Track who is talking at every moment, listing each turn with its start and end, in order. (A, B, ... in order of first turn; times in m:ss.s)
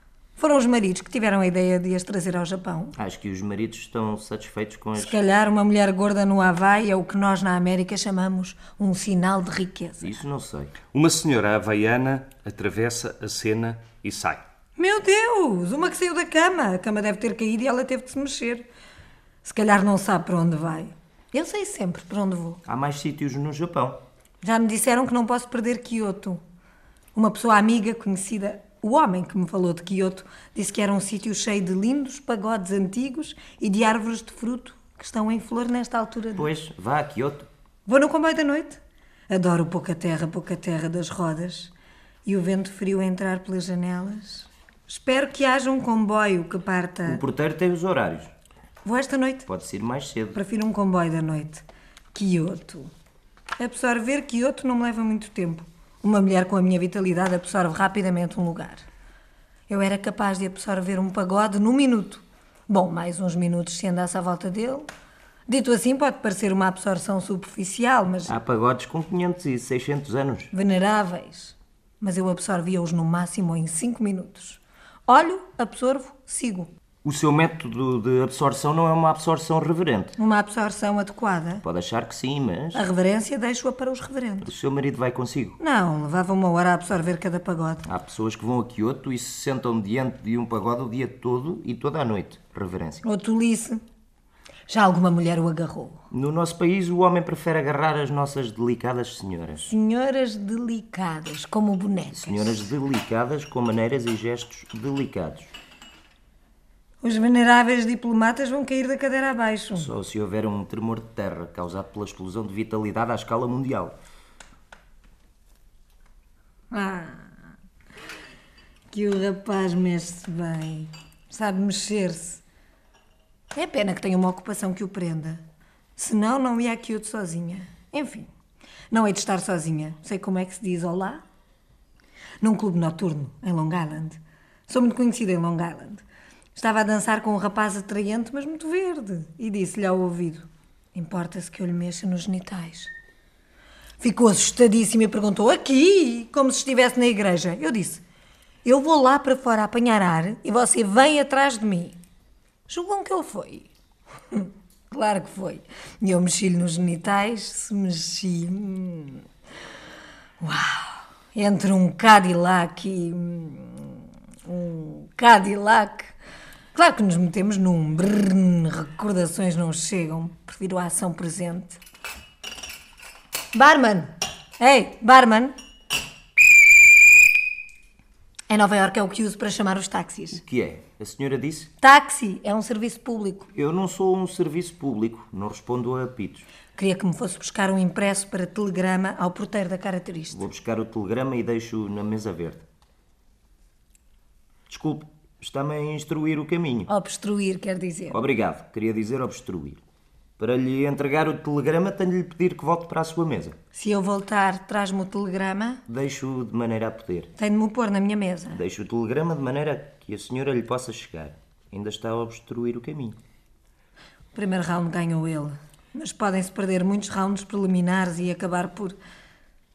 0:00.4-0:02.9 A
0:03.0-0:05.2 B
0:05.0-0:10.2 A
0:10.0-0:10.7 B
0:10.9-0:14.4 C
0:14.8-0:18.6 A
0:19.4-0:22.6 A
0:22.6-0:24.0 B
0:24.4-0:26.4 A
0:27.1-0:36.5 A
0:36.4-0:37.5 B
0:37.8-0:41.7 A
0:42.2-0:47.2 A
0:47.0-0:48.3 B
0:48.8-0:49.5 A
0:49.5-0:50.4 B
0:50.3-0:52.9 A
0:53.6-0:58.8 A
0:59.7-1:04.9 A
1:05.5-1:08.4 A
1:08.3-1:10.5 B
1:10.5-1:16.7 A
1:17.0-1:20.2 B
1:20.2-1:21.6 A
1:21.6-1:22.8 B
1:22.7-1:24.5 A
1:24.4-1:25.6 B
1:25.6-1:27.8 A
1:27.8-1:33.0 B
1:33.0-1:33.8 A
1:34.7-1:36.0 A
1:36.1-1:39.7 B
1:39.6-1:42.6 A
1:42.1-1:45.5 B
1:47.0-1:49.9 A
1:49.7-1:54.0 B
1:56.7-1:57.3 A
1:58.9-2:02.4 A
2:03.5-2:05.4 A
2:06.0-2:08.3 A
2:08.9-2:11.2 A
2:12.4-2:16.0 A
2:16.6-2:22.9 A
2:24.0-2:28.0 A
2:28.6-2:32.0 A
2:32.7-2:33.7 A
2:34.3-2:39.2 A
2:40.4-2:46.1 A
2:46.7-2:51.8 A
2:53.5-2:55.5 A
2:58.5-3:00.4 A
3:00.4-3:01.7 B
3:01.8-3:03.5 A
3:03.5-3:06.4 B
3:06.8-3:10.4 A
3:10.3-3:12.6 B
3:14.7-3:16.9 B
3:16.9-3:18.2 A
3:18.1-3:19.8 B
3:20.4-3:23.6 B
3:23.7-3:25.8 A
3:25.9-3:27.3 B
3:27.4-3:28.6 A
3:28.5-3:33.2 B
3:34.3-3:39.0 A